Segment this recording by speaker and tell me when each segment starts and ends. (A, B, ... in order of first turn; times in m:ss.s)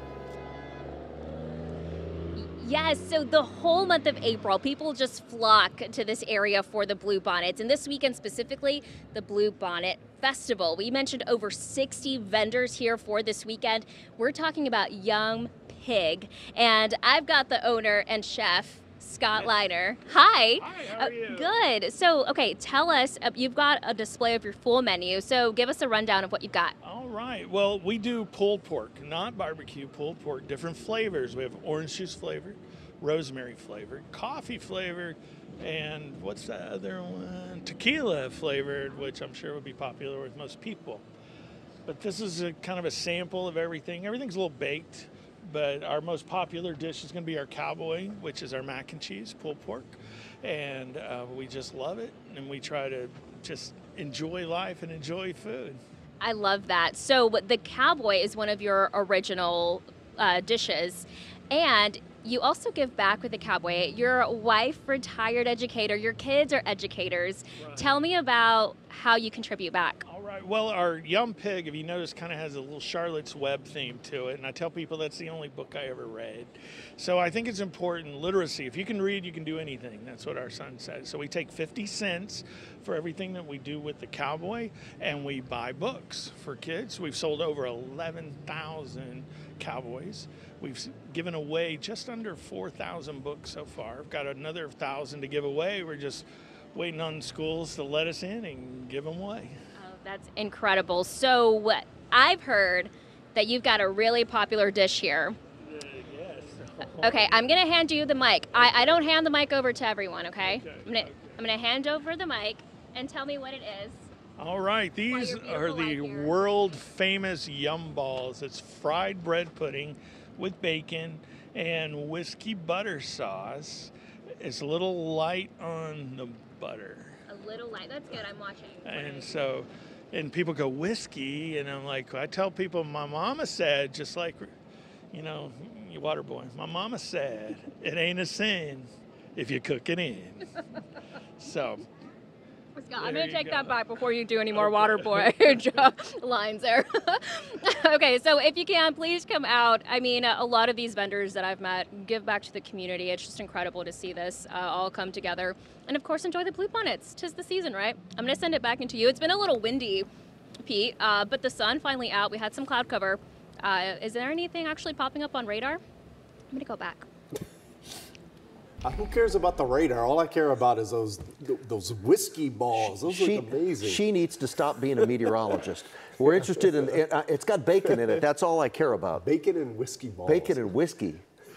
0:02.4-0:26.8 A
0:19.4-0:19.6 B
0:20.5-0:21.6 B
0:26.8-0:41.0 B
0:41.8-0:55.8 B
0:56.2-1:10.0 A
1:07.6-1:08.0 B
1:10.1-1:39.6 B
1:39.8-1:45.4 A
1:45.6-1:47.4 B
1:47.0-1:54.1 A
1:50.4-1:51.4 B
1:54.4-2:07.2 B
1:55.1-1:56.4 A
2:07.3-2:09.4 A
2:08.8-2:14.5 B
2:15.1-2:20.6 B
2:21.4-2:21.8 B
2:22.8-2:40.1 A
2:23.0-2:23.8 B
2:24.6-2:25.5 B
2:40.6-2:45.8 A
2:46.5-2:47.1 A
2:48.8-2:54.0 C
2:52.8-2:59.3 D
2:59.2-3:00.7 C
3:00.3-3:01.2 D